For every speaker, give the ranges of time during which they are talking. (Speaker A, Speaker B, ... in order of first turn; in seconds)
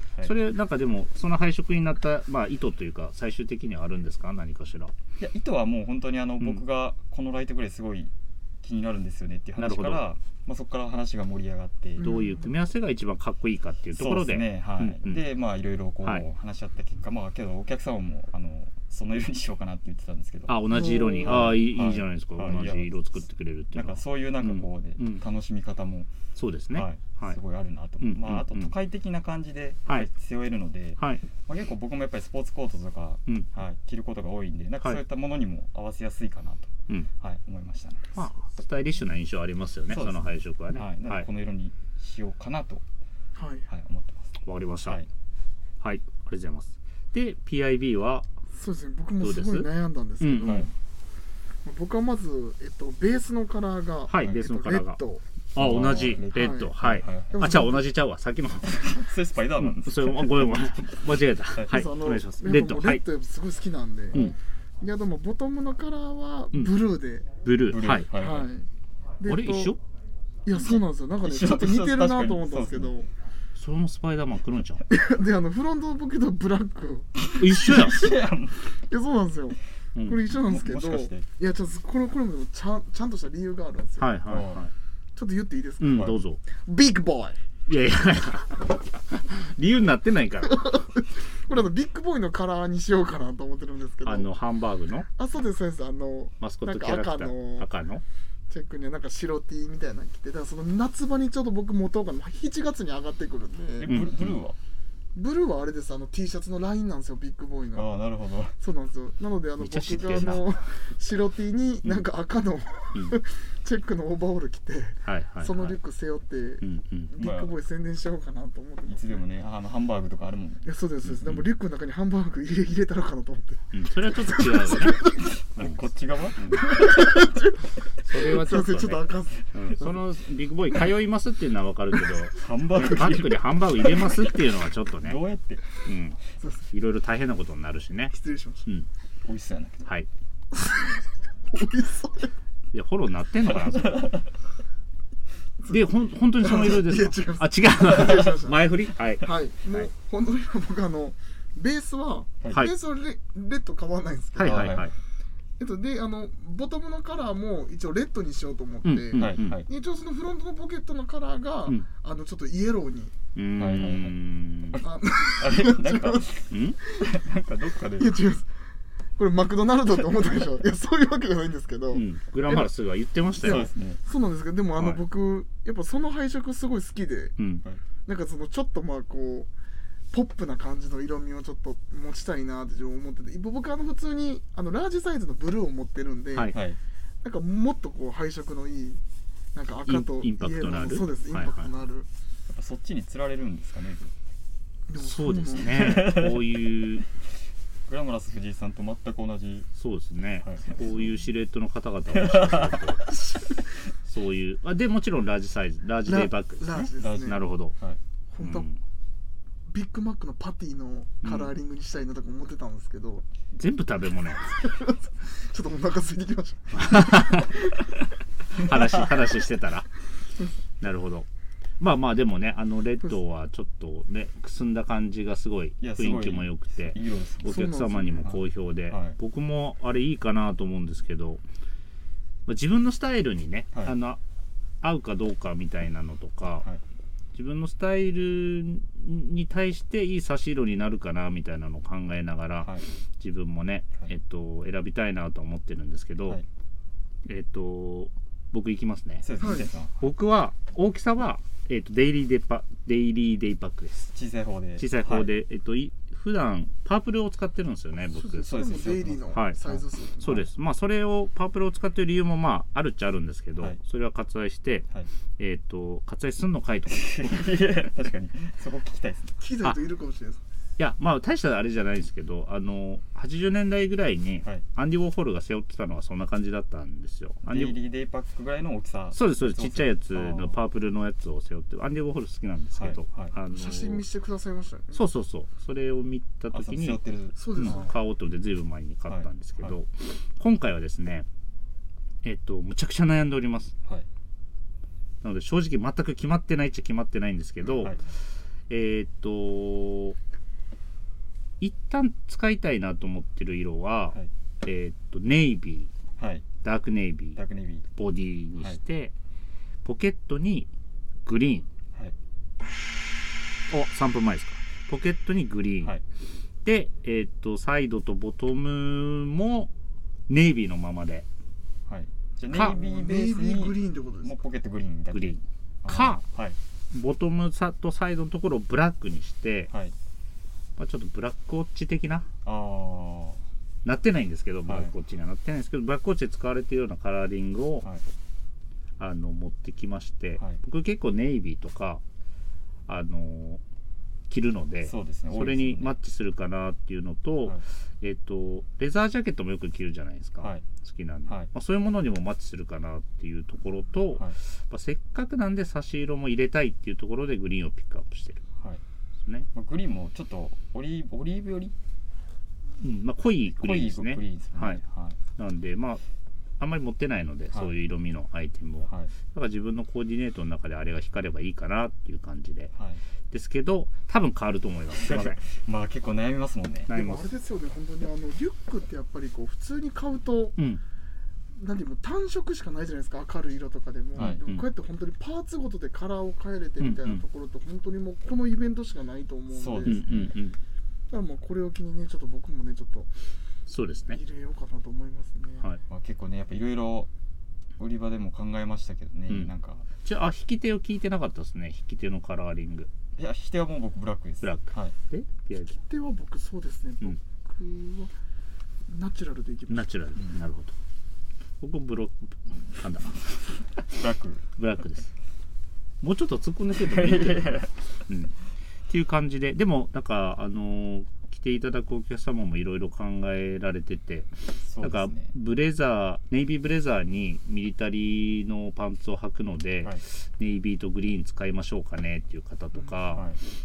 Speaker A: 0.2-4.9, 9.6-10.0, 12.0-15.2, 20.5-25.2, 26.4-27.4, 28.0-28.7, 31.0-31.2, 38.1-41.3, 44.4-45.0, 45.8-48.3, 49.2-50.7, 54.1-55.0, 55.5-58.9, 59.6-63.0, 67.4-68.1, 69.2-69.8, 73.5-74.8, 77.3-78.1, 84.0-84.7, 85.8-86.4, 87.7-90.7, 94.0-95.1, 96.4-98.0, 103.9-104.4, 109.6-110.5, 115.0-115.8, 116.6-117.1, 121.0-121.5, 123.7-125.8, 126.4-126.7, 128.0-135.2, 135.8-136.2, 136.7-138.1, 142.7-144.1, 145.7-149.9, 154.3-154.9, 158.8-159.6, 163.3-164.8, 166.5-166.8, 171.9-173.7, 177.4-177.6, 189.8-191.7, 195.0-197.0, 199.7-203.4, 204.0-207.7, 208.4-208.8, 211.2-211.5, 213.6-214.6, 216.7-217.6, 218.6-219.9, 220.8-221.3, 221.8-231.4, 232.4-234.2, 234.8-236.7, 237.3-246.4, 247.2-249.3, 250.0-254.1, 254.8-258.6, 259.3-259.6, 260.2-264.9, 265.4-267.5, 270.8-277.8, 279.1-284.0, 284.9-287.0, 287.5-291.3, 292.2-293.7, 295.2-297.9, 298.7-300.2, 301.6-305.9, 306.6-307.4, 307.9-309.1, 309.8-310.7, 311.2-311.7, 313.7-315.9, 316.6-319.7, 320.3-321.2, 322.5-322.7, 325.1-326.2, 326.9-329.7, 330.8-332.3, 333.8-337.9, 339.0-342.0, 342.9-343.6, 344.3-358.4, 362.8-364.8, 365.4-366.0, 366.6-372.7, 373.3-375.4, 376.9-377.2, 384.2-384.6, 386.8-387.2, 389.8-390.6, 393.7-394.2, 400.0-402.9, 404.4-405.8, 409.7-410.7, 411.6-413.4, 414.6-415.1, 416.0-418.3, 418.9-433.3
Speaker B: 5.2-12.1, 14.0-20.6, 21.2-22.9, 23.7-26.1, 26.7-38.2, 39.9-42.8, 43.7-44.3, 50.4-50.7, 54.2-54.4, 55.5-57.6, 58.6-61.8, 67.7-68.5, 70.5-72.9, 77.2-78.7, 80.3-81.3, 84.3-84.6, 85.9-86.2, 103.8-104.6, 107.7-108.5, 117.2-117.5, 118.9-120.7, 125.4-126.8, 132.4-134.2, 135.0-135.8, 139.2-139.9, 143.5-144.3, 154.4-154.9, 159.2-159.7, 163.6-164.2, 164.7-168.1, 173.4-174.0, 186.5-186.8, 192.5-194.1, 195.6-196.5, 197.9-199.7, 200.4-200.8, 202.1-202.9, 207.0-208.0, 225.8-229.2, 249.2-250.1, 254.1-255.3, 258.4-259.8, 266.9-269.4, 277.4-280.6, 282.8-283.3, 286.5-287.9, 289.1-289.7, 297.6-298.0, 306.2-306.4, 307.4-307.9, 321.9-326.6, 332.4-333.4, 334.6-334.9, 344.8-345.9, 359.5-361.7, 363.5-365.2, 368.9-369.1, 372.7-373.0, 375.0-376.9, 384.1-384.4, 389.5-390.4, 395.9-397.1, 397.8-399.9, 403.2-404.9, 413.9-414.5, 416.8-417.7, 424.6-425.3, 433.1-433.4
Speaker C: 12.0-12.5, 20.7-21.4, 43.3-43.6, 48.5-50.7, 51.6-55.2, 56.3-56.8, 57.3-57.8, 61.7-67.4, 68.1-68.7, 69.2-69.7, 70.4-73.1, 74.9-77.8, 78.8-84.2, 85.2-87.4, 90.4-94.3, 95.1-97.7, 98.5-104.0, 105.1-107.9, 108.6-119.2, 120.6-125.3, 126.5-129.4, 138.1-138.7, 140.5-142.3, 146.4-154.8, 155.6-163.1, 164.8-167.1, 167.9-168.5, 169.2-172.7, 173.4-177.3, 178.1-179.5, 180.1-186.6, 187.2-189.0, 189.5-192.1, 194.9-196.0, 206.1-207.4, 208.3-208.7, 209.7-213.2, 214.5-217.9, 227.4-228.3, 249.4-249.7, 258.1-260.4, 269.4-270.4, 283.5-285.0, 287.4-287.9, 322.6-324.3, 376.9-380.6, 381.5-390.3, 391.1-393.1, 394.1-395.7, 405.7-408.1, 408.9-409.9